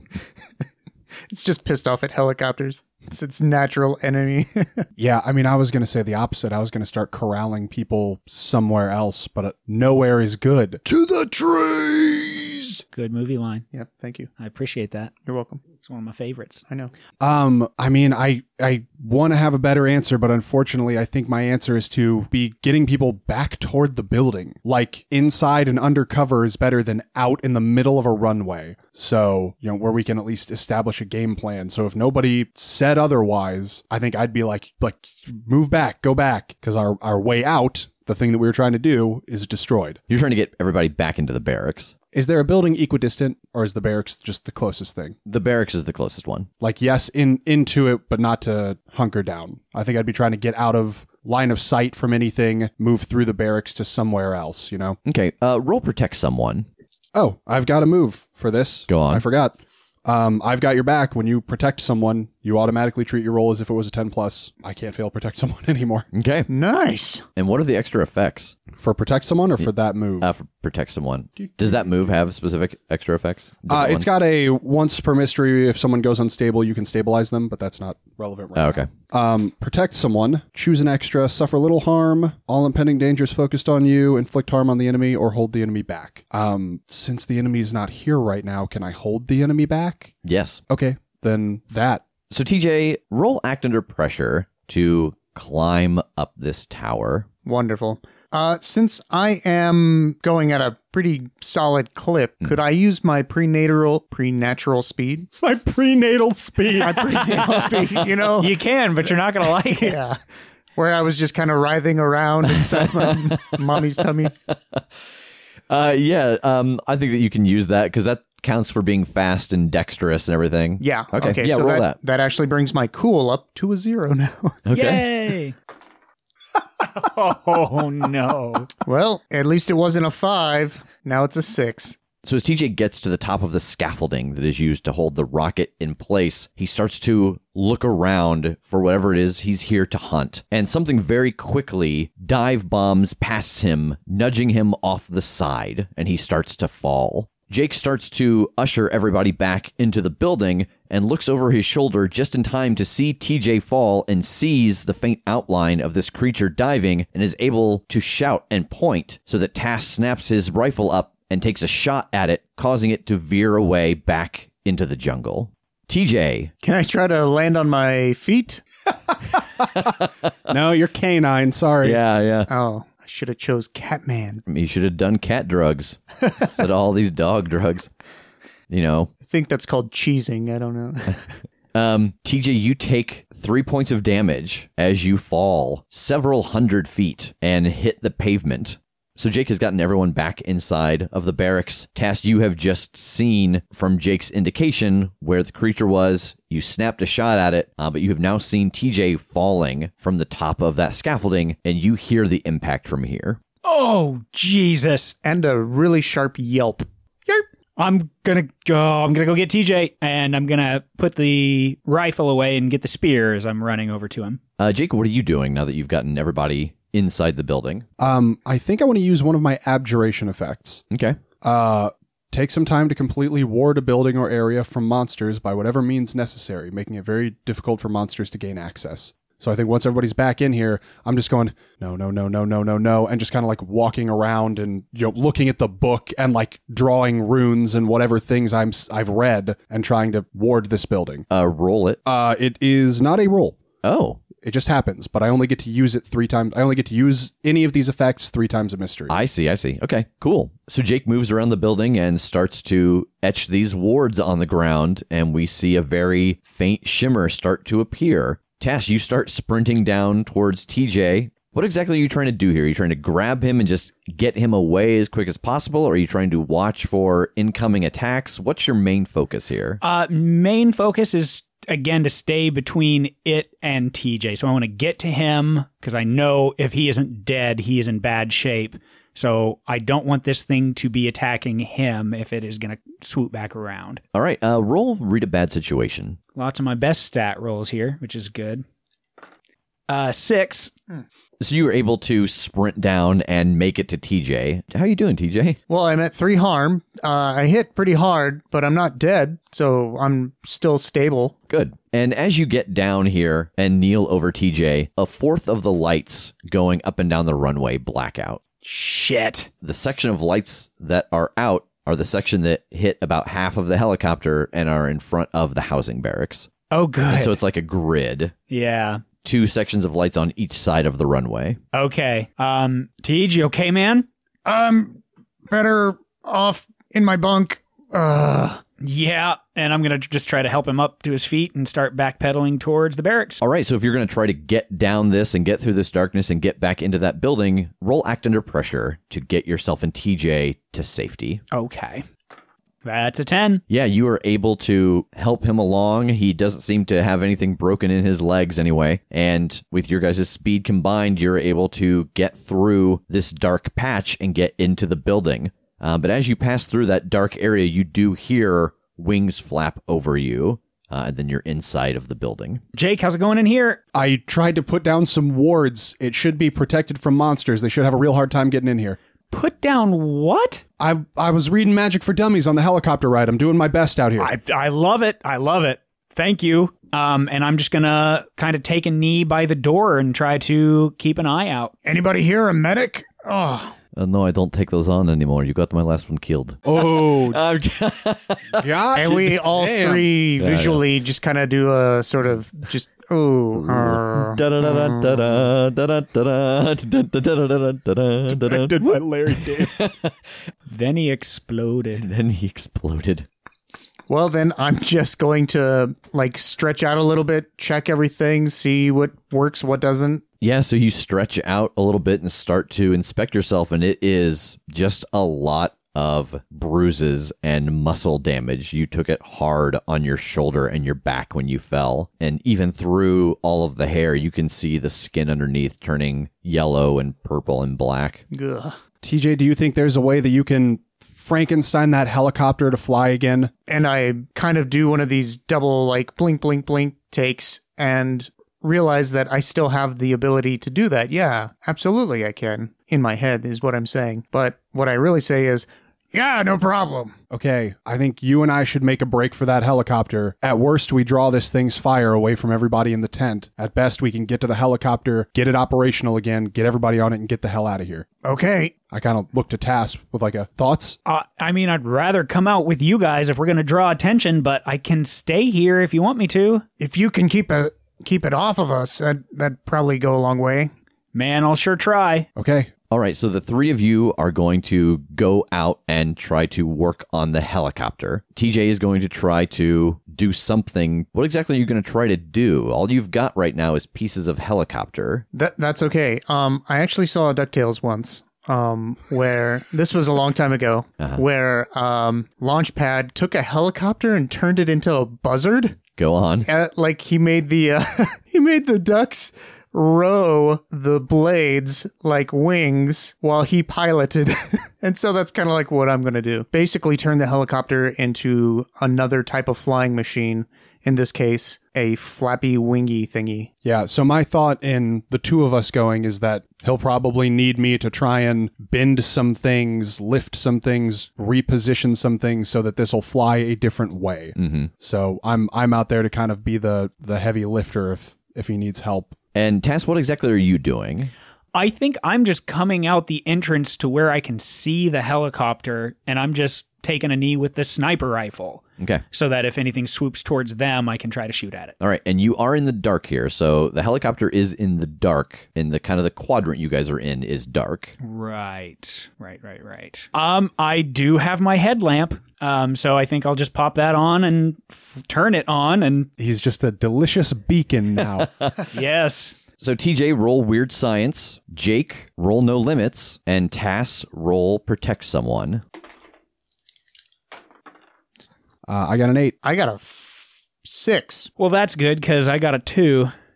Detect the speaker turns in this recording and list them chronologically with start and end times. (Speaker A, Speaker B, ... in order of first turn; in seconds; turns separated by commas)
Speaker A: 1.3-4.8, Speaker B: 5.0-11.5, Speaker A: 10.9-12.2, Speaker C: 12.9-13.7, Speaker A: 13.7-14.3, Speaker C: 14.4-15.1, Speaker A: 15.2-15.6, Speaker C: 15.7-16.6, Speaker A: 16.7-16.9, Speaker B: 17.2-40.0, Speaker D: 40.1-41.9, Speaker B: 42.1-45.2, Speaker D: 45.2-46.5, Speaker B: 46.6-55.0, Speaker D: 55.0-56.7, Speaker B: 57.1-66.1, Speaker D: 58.9-59.2, Speaker D: 66.1-66.5, Speaker A: 66.5-67.2, Speaker D: 67.3-68.6, Speaker B: 68.7-70.3, Speaker D: 70.2-74.1, Speaker B: 71.4-71.8, Speaker B: 73.7-90.1, Speaker D: 78.5-78.9, Speaker D: 90.2-90.6, Speaker B: 90.7-92.0, Speaker D: 92.3-97.3, Speaker A: 97.4-105.3, Speaker B: 105.4-108.0, Speaker A: 106.7-108.5, Speaker C: 108.4-110.0, Speaker A: 109.7-110.2, Speaker A: 110.7-114.3, Speaker D: 112.6-113.6, Speaker D: 114.5-114.8, Speaker D: 115.7-122.0, Speaker A: 120.8-124.6, Speaker D: 124.7-125.0, Speaker C: 124.7-125.5, Speaker C: 126.8-128.7, Speaker A: 128.8-132.0, Speaker D: 132.2-166.5, Speaker A: 166.6-168.6, Speaker B: 170.5-172.0, Speaker D: 171.8-172.5, Speaker A: 172.5-174.4, Speaker D: 174.4-177.9, Speaker D: 178.7-179.1, Speaker A: 179.2-181.3, Speaker D: 181.7-203.4, Speaker C: 203.6-205.2, Speaker A: 205.2-207.4, Speaker C: 207.8-214.4, Speaker D: 214.6-217.8, Speaker B: 218.0-220.8, Speaker D: 220.9-221.2, Speaker B: 221.4-241.2, Speaker D: 241.3-242.0, Speaker B: 242.0-243.6, Speaker D: 243.8-244.2, Speaker B: 244.4-249.2, Speaker D: 249.1-269.8, Speaker C: 269.8-284.0, Speaker D: 284.1-286.2, Speaker C: 286.3-288.6, Speaker C: 289.9-290.7, Speaker D: 291.4-295.6, Speaker A: 295.7-301.4, Speaker D: 301.5-308.4, Speaker C: 308.6-309.5, Speaker D: 309.6-316.5, Speaker C: 316.7-317.3, Speaker D: 317.1-318.3, Speaker C: 318.5-319.0, Speaker D: 319.2-321.6, Speaker C: 321.7-324.1, Speaker A: 324.4-328.6, Speaker C: 328.8-333.4, Speaker D: 333.4-341.4, Speaker C: 341.5-342.0, Speaker C: 342.8-343.6, Speaker D: 343.7-362.6, Speaker C: 362.7-363.8, Speaker B: 363.9-369.0, Speaker C: 369.3-370.6, Speaker B: 370.8-374.3, Speaker C: 374.2-381.7, Speaker A: 381.8-383.7, Speaker D: 383.9-388.6, Speaker B: 386.6-387.4, Speaker B: 388.6-390.1, Speaker A: 388.9-395.4, Speaker D: 390.4-390.8, Speaker D: 393.6-400.1, Speaker B: 398.3-399.9, Speaker C: 400.7-402.1, Speaker D: 402.0-403.3, Speaker A: 404.1-410.2, Speaker D: 410.4-428.2, Speaker A: 428.3-428.8, Speaker B: 429.0-433.5, Speaker A: 433.7-447.1, Speaker B: 447.3-458.1, Speaker A: 458.2-458.7, Speaker B: 458.9-461.0, Speaker C: 461.1-466.6, Speaker A: 466.8-470.7, Speaker C: 471.1-472.3, Speaker B: 472.4-472.7, Speaker D: 472.9-485.2, Speaker A: 485.3-495.8, Speaker D: 491.0-491.2, Speaker D: 496.0-496.5, Speaker A: 496.4-513.5, Speaker B: 513.6-529.1, Speaker D: 524.4-524.7, Speaker D: 529.3-531.1, Speaker C: 531.5-541.7, Speaker D: 541.8-547.9, Speaker C: 548.0-556.1, Speaker B: 556.2-558.3, Speaker C: 558.7-559.3, Speaker D: 559.6-565.6, Speaker B: 568.6-569.4, Speaker A: 569.4-571.3, Speaker C: 571.4-573.1